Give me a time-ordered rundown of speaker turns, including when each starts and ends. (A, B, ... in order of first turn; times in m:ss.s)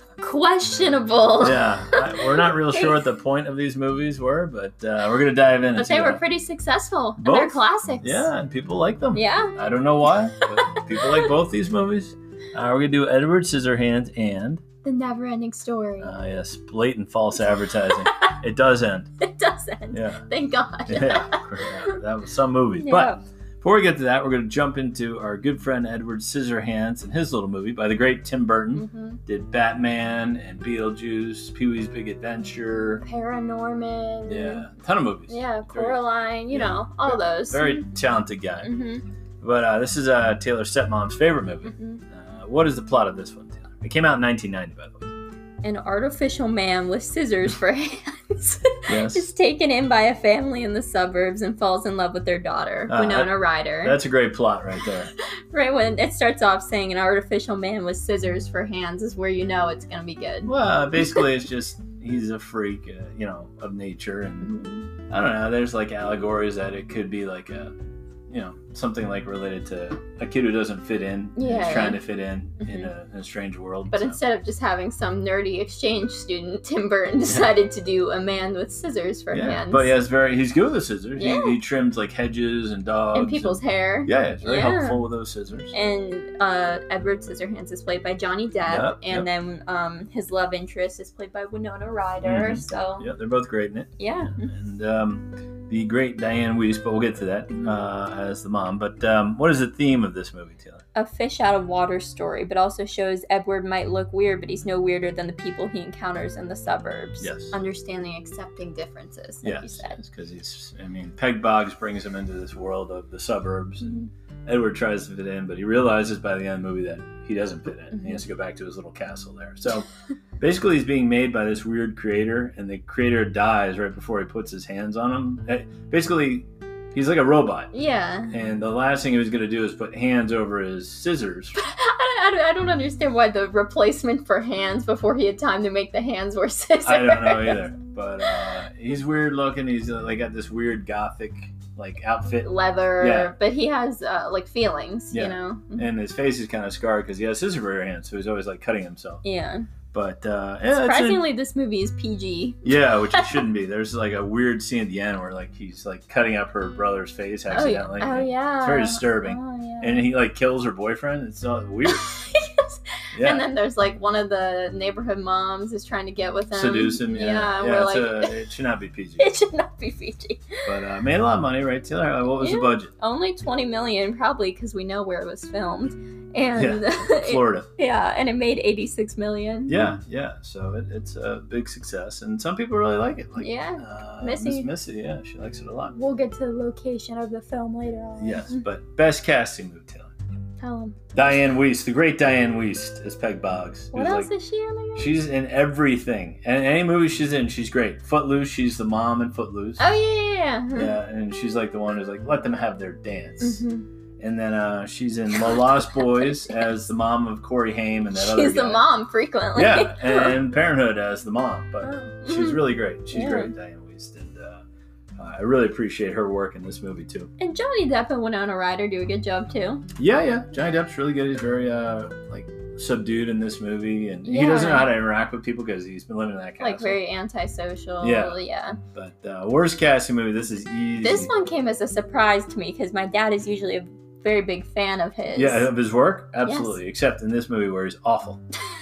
0:00.2-0:03.0 A
0:01.4-0:06.2 B
0:05.8-0:08.3 A
0:07.2-0:14.6 B
0:09.1-0:09.6 A
0:10.2-0:11.3 A
0:14.8-0:16.1 A
0:16.0-0:19.1 B
0:19.2-0:22.0 A
0:19.9-0:20.2 B
0:20.9-0:33.0 B
0:22.7-0:23.2 A
0:28.7-0:29.2 A
0:33.0-0:34.7 A
0:34.3-0:38.7 B
0:35.3-0:37.9 A
0:38.6-0:39.0 A
0:39.4-0:45.1 B
0:41.6-0:42.0 A
0:45.6-0:54.0 A
0:48.9-0:49.3 B
0:52.9-0:55.1 B
0:55.5-1:00.5 A
1:00.5-1:04.5 B
1:04.4-1:04.9 A
1:05.1-1:07.7 B
1:08.3-1:14.2 B
1:11.4-1:12.0 A
1:12.6-1:12.9 A
1:13.9-1:19.9 A
1:19.3-1:25.8 B
1:21.2-1:21.6 A
1:23.1-1:25.0 A
1:25.7-1:33.1 A
1:28.7-1:29.3 B
1:32.2-1:40.8 B
1:34.0-1:34.5 A
1:37.5-1:37.8 A
1:40.9-1:50.0 A
1:47.2-1:47.5 B
1:49.4-1:59.9 B
1:53.8-1:54.1 A
1:57.9-1:58.2 A
2:00.4-2:07.7 B
2:07.7-2:08.3 A
2:08.3-2:11.6 B
2:11.6-2:17.7 A
2:16.8-2:23.3 B
2:22.4-2:25.8 A
2:25.1-2:29.2 B
2:29.2-2:29.7 A
2:29.9-2:31.2 B
2:30.7-2:33.5 A
2:32.6-2:42.1 B
2:37.5-2:40.1 A
2:41.8-2:48.4 A
2:43.1-2:43.5 B
2:46.5-2:49.3 B
2:49.2-2:50.7 A
2:50.7-2:52.9 B
2:52.4-2:59.9 A
2:56.6-2:57.7 B
2:59.7-3:06.0 B
3:03.4-3:04.7 A
3:05.9-3:08.6 A
3:08.2-3:10.1 B
3:10.6-3:11.4 A
3:11.1-3:14.3 B
3:13.9-3:15.1 A
3:15.0-3:19.8 B
3:19.8-3:20.9 A
3:20.8-3:23.6 B
3:23.4-3:23.8 A
3:24.2-3:28.8 B
3:25.3-3:26.8 A
3:28.1-3:30.4 A
3:29.5-3:34.6 B
3:31.8-3:33.5 A
3:35.2-3:37.3 B
3:37.4-3:39.8 A
3:40.0-3:47.0 B
3:44.2-3:44.9 A
3:46.6-3:48.8 A
3:48.0-3:48.4 B
3:48.9-3:51.3 B
3:51.0-3:55.7 A
3:55.3-3:58.4 B
3:56.4-3:56.8 A